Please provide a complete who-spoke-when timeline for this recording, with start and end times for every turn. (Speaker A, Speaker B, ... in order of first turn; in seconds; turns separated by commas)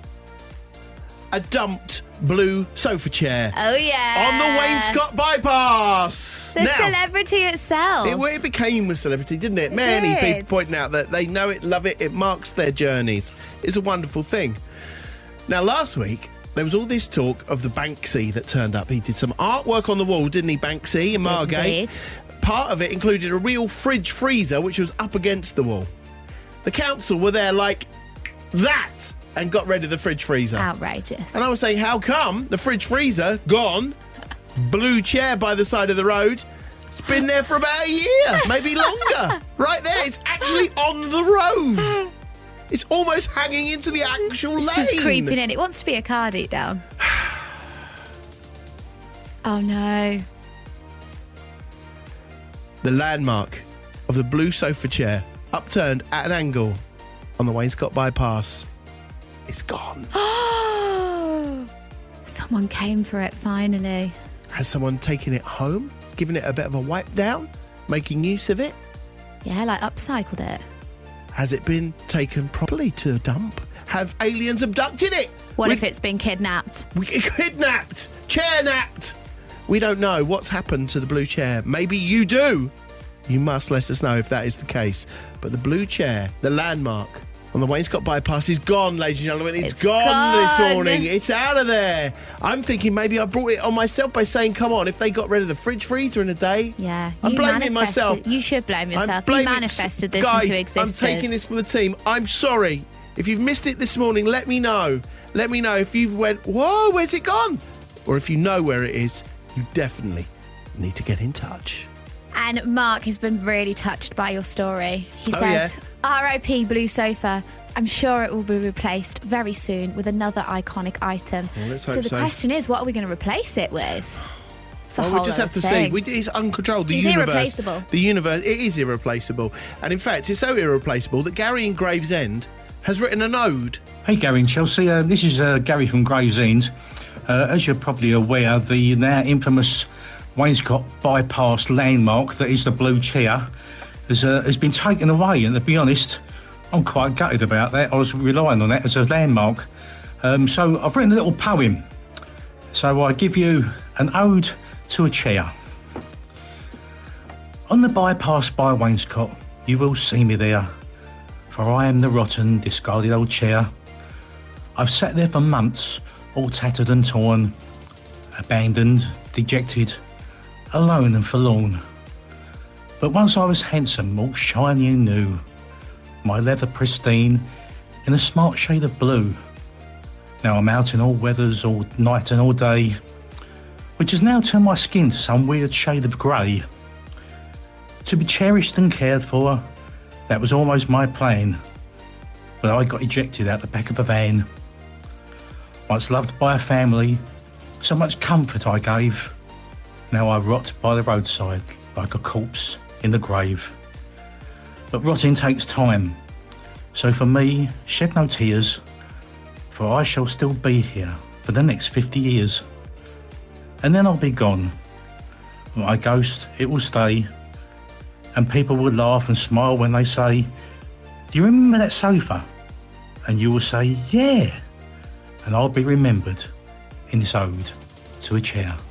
Speaker A: 1.3-3.5, Speaker B: 3.5-5.0, Speaker A: 4.1-7.0, Speaker B: 6.5-8.2, Speaker A: 8.0-14.6, Speaker B: 9.7-10.5, Speaker A: 15.5-21.8, Speaker B: 21.2-21.9, Speaker A: 22.4-25.9, Speaker A: 26.6-27.9, Speaker A: 28.5-30.7, Speaker B: 30.6-31.4, Speaker A: 31.3-34.0, Speaker A: 34.5-42.1, Speaker A: 42.7-45.4, Speaker B: 44.6-46.8, Speaker A: 47.0-47.4, Speaker B: 49.4-50.2, Speaker A: 52.8-56.8, Speaker A: 57.4-58.7, Speaker A: 59.5-60.1, Speaker B: 60.1-61.6, Speaker B: 62.2-64.1, Speaker A: 64.5-68.8, Speaker B: 69.4-70.6, Speaker A: 71.3-75.8, Speaker B: 75.6-76.9, Speaker A: 76.9-82.7, Speaker A: 83.3-98.2, Speaker B: 89.6-91.1, Speaker B: 96.8-101.3, Speaker A: 98.9-111.9, Speaker B: 112.3-124.2, Speaker A: 115.3-115.7, Speaker A: 121.5-122.3, Speaker B: 124.9-126.0, Speaker A: 125.0-133.8, Speaker B: 126.9-127.9, Speaker C: 134.0-136.7, Speaker C: 137.2-143.5, Speaker C: 144.1-146.2, Speaker C: 146.7-149.7, Speaker C: 150.2-151.8, Speaker C: 152.7-155.5, Speaker C: 157.7-160.7, Speaker C: 161.5-163.7, Speaker C: 164.8-167.6, Speaker C: 168.4-170.0, Speaker C: 170.7-171.8, Speaker C: 173.0-175.4, Speaker C: 176.2-177.5, Speaker C: 178.0-179.4, Speaker C: 180.4-183.0, Speaker C: 184.0-186.7, Speaker C: 188.0-189.6, Speaker C: 190.3-191.6, Speaker C: 192.6-194.5, Speaker C: 195.9-197.2, Speaker C: 197.8-199.3, Speaker C: 200.1-203.7, Speaker C: 204.9-206.2, Speaker C: 206.9-208.8, Speaker C: 209.7-212.6, Speaker C: 213.8-214.7, Speaker C: 215.7-217.3, Speaker C: 218.3-220.5, Speaker C: 221.3-222.4, Speaker C: 223.2-224.6, Speaker C: 225.4-226.5, Speaker C: 227.1-228.8